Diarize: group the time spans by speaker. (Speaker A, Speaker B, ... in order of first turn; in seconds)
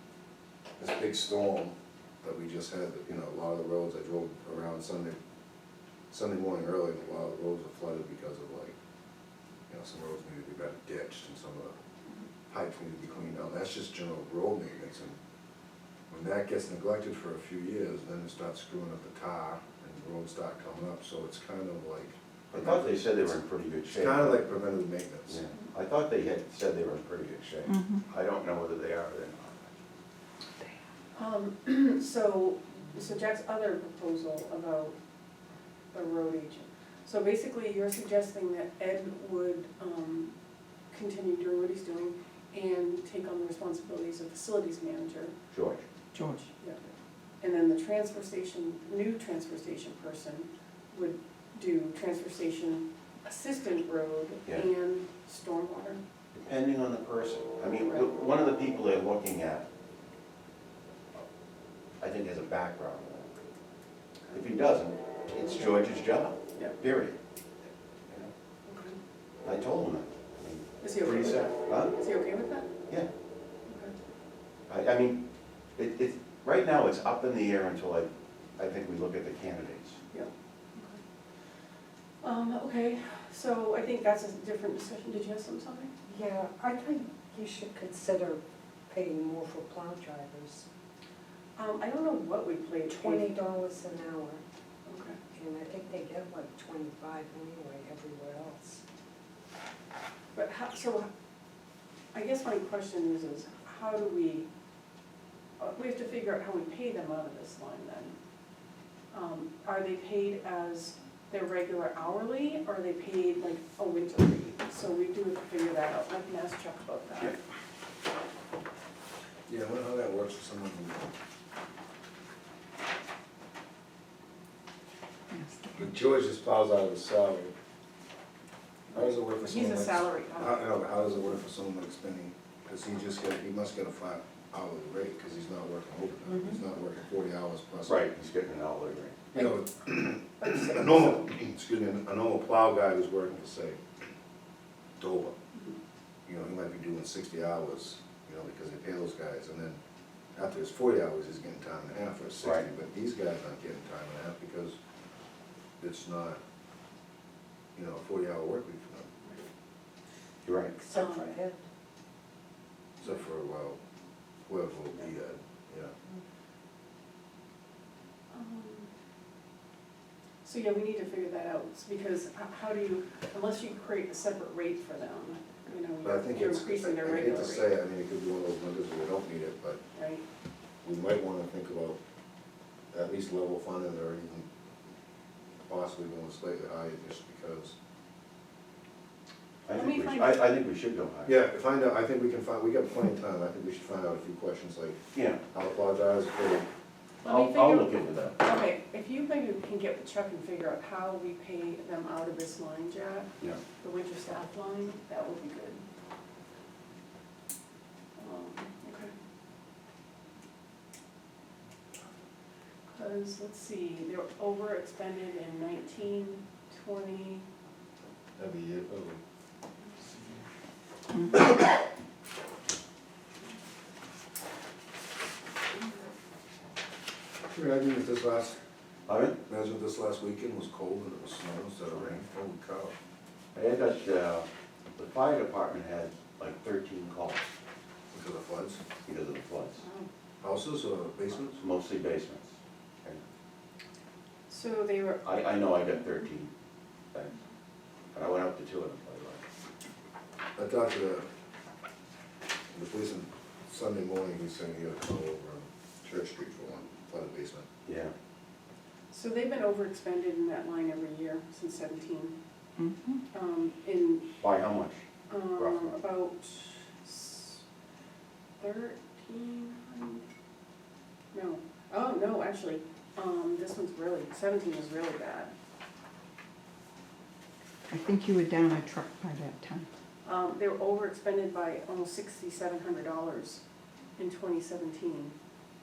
Speaker A: 0.8-5.2, 6.1-8.7, 9.7-11.8, 12.5-15.2, 16.1-23.3, 23.9-25.4, 119.5-121.1, 125.7-127.5, 128.9-138.1, 139.3-143.8, 145.0-145.3, 146.2-149.8, 150.3-154.8, 155.8-156.4, 157.8-159.1, 163.0-163.8, 164.4-165.9, 176.0-179.8, 180.8-182.0, 182.9-184.5, 185.7-187.7, 191.2-196.7, 218.4-219.2, 227.5-228.6, 229.4-232.9, 238.1-238.8, 240.4-241.6, 250.6-251.2, 252.7-257.7
Speaker B: 22.5-24.5, 25.3-29.7, 45.5-45.8, 56.3-59.6, 62.0-63.3, 64.3-67.2, 69.4-71.9, 74.7-75.2, 75.8-80.0, 137.8-139.3, 160.4-160.8, 189.7-191.3, 195.1-195.4, 197.2-198.4, 229.1-229.4, 231.9-232.1, 233.5-237.4, 239.0-239.8, 241.5-243.2, 245.2-246.5, 248.1-249.4, 257.9-258.1, 264.4-265.0
Speaker C: 27.7-28.0, 46.1-46.5, 125.3-125.9, 262.8-263.2, 277.9-279.9
Speaker D: 31.1-34.9, 35.9-40.3, 40.9-45.4, 46.4-46.8, 47.4-56.0, 68.7-69.0, 70.8-72.7, 73.7-73.9, 80.1-81.0, 82.2-85.9, 91.5-93.3, 94.8-95.2, 100.3-101.1, 102.1-104.5, 105.6-108.2, 109.1-117.4, 128.9-130.6, 140.4-141.3, 160.9-161.3, 168.3-168.9, 170.4-177.7, 179.9-180.2, 189.7-190.4, 197.2-205.8, 208.2-209.1, 212.9-217.4, 239.8-240.1, 244.5-245.8, 259.1-262.3, 263.3-264.3, 265.3-267.6, 268.6-270.2, 271.3-275.5, 280.2-283.6, 284.2-285.3
Speaker E: 86.1-90.6, 92.8-94.4, 95.3-98.8, 160.8-161.6